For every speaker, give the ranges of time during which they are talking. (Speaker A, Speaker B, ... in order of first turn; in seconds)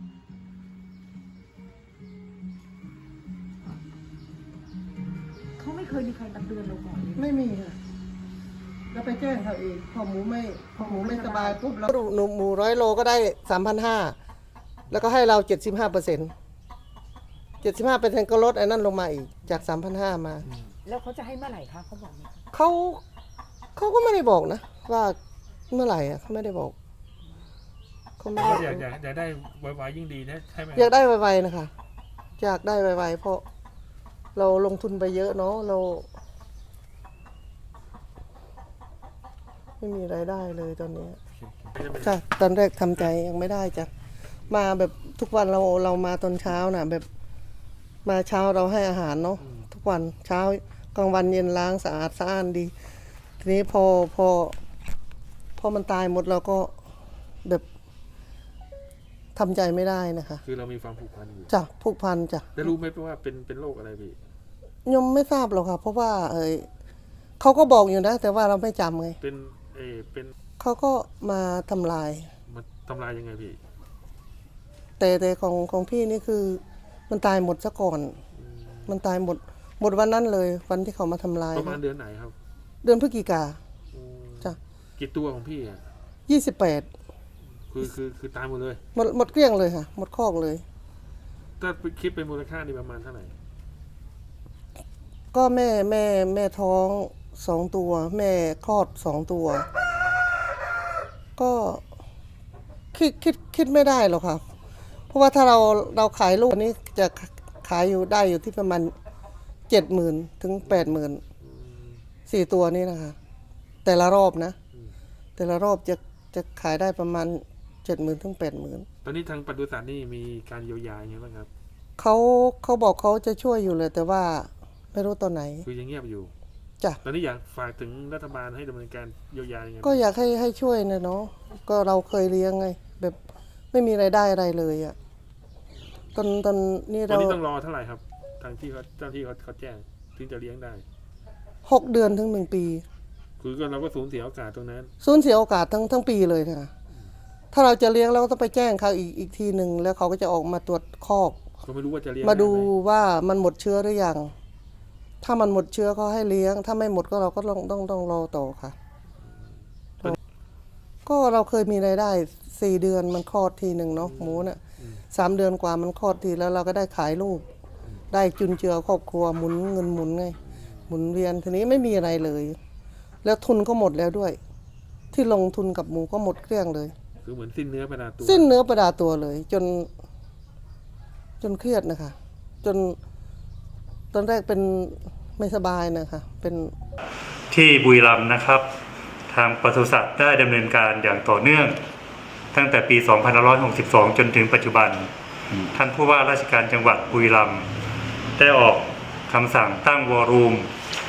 Speaker A: 5.6-7.2, 10.8-11.6, 20.9-22.4
Speaker B: 7.1-7.8, 8.9-14.2, 14.9-16.3, 17.6-20.5, 22.5-23.0, 23.8-25.2, 25.7-26.8, 28.2-28.9, 30.8-31.7, 32.4-33.4, 34.4-36.1, 39.8-41.2, 42.0-43.9, 44.5-47.1, 48.0-52.7, 53.4-54.6, 55.6-56.7, 59.4-60.4, 61.5-62.7, 64.8-66.7, 67.4-69.2, 70.6-72.3, 75.0-78.2, 78.9-81.8, 82.8-83.6, 86.3-86.9, 89.0-90.6, 95.3-99.7, 101.4-101.8, 102.9-104.4, 105.1-108.9, 109.7-111.2, 112.3-113.2, 113.8-114.6, 115.4-118.9, 122.0-125.7, 129.8-133.2, 133.7-135.0, 136.2-137.4, 141.7-142.8, 145.0-146.7, 147.5-151.4, 152.2-154.3, 155.2-158.8, 161.1-164.6, 165.1-167.5, 168.1-172.6, 173.2-174.4, 175.1-176.9, 178.2-179.9, 181.4-183.0, 184.1-186.8
Speaker C: 28.4-30.9, 41.6-42.2, 49.4-49.7, 60.4-61.5, 62.5-64.2, 69.2-70.3, 72.5-73.6, 78.4-79.0, 81.5-82.3, 83.9-85.8, 87.7-88.8, 91.6-93.3, 99.9-100.2, 110.6-112.0, 119.0-121.5, 125.6-126.3, 127.0-130.0, 137.1-140.8, 143.4-144.9, 151.6-152.7, 159.2-159.5, 164.0-165.0, 177.2-178.5
Speaker D: 187.5-188.7, 189.3-191.8, 192.5-195.1, 195.6-197.7, 198.4-200.7